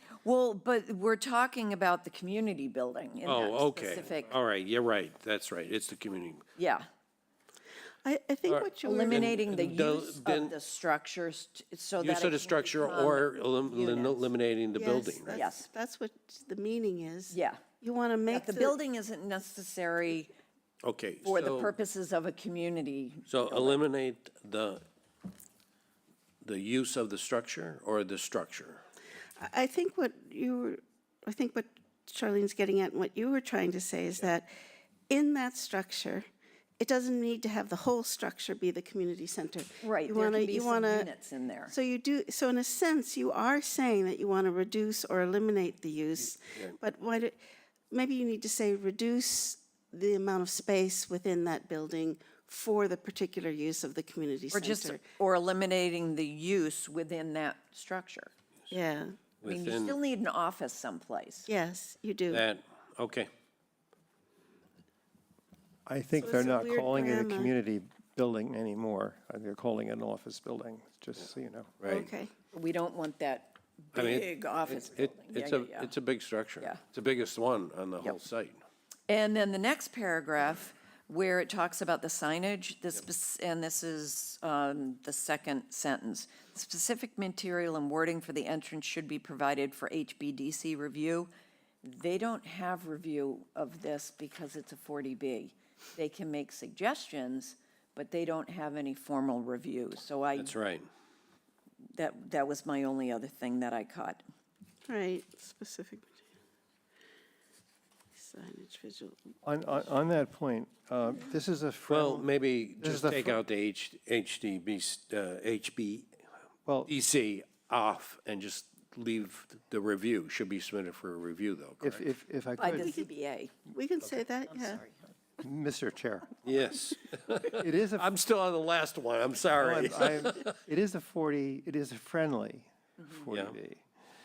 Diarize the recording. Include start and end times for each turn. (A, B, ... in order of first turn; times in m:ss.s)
0:00.2-0:04.4 A
0:03.2-0:06.4 B
0:06.6-0:06.9 A
0:08.0-0:09.4 C
0:08.5-0:10.6 B
0:08.8-0:14.3 A
0:12.0-0:15.4 B
0:14.7-0:18.8 C
0:15.3-0:15.6 A
0:17.3-0:17.6 A
0:18.3-0:20.3 A
0:20.8-0:21.7 B
0:21.2-0:23.8 A
0:23.3-0:24.8 B
0:26.4-0:28.8 B
0:29.4-0:34.5 C
0:35.1-0:36.2 C
0:36.8-0:41.1 C
0:39.8-0:41.7 A
0:41.7-0:47.4 C
0:47.9-0:55.0 C
0:54.5-0:58.3 A
0:58.7-0:59.2 C
0:59.4-1:00.0 B
0:59.4-1:01.5 A
1:01.5-1:02.4 C
1:02.3-1:03.3 B
1:05.9-1:11.8 D
1:06.2-1:07.5 C
1:11.8-1:12.1 B
1:11.9-1:12.3 C
1:12.5-1:15.9 A
1:13.9-1:18.6 B
1:19.1-1:31.3 A
1:31.8-1:40.5 A
1:40.4-1:40.9 B
1:42.0-1:44.2 A
1:44.8-1:46.2 C
1:48.1-1:49.2 C
1:49.4-1:52.3 D
1:51.9-1:56.1 B
1:52.8-1:53.4 D
1:56.7-1:56.9 D
1:56.9-2:02.0 B
2:01.8-2:03.0 D
2:02.6-2:03.5 A
2:02.7-2:03.1 C
2:03.7-2:04.8 C
2:04.5-2:04.9 A
2:05.4-2:06.4 D
2:06.4-2:10.6 B
2:07.5-2:08.1 D
2:09.6-2:13.8 D
2:13.3-2:13.6 B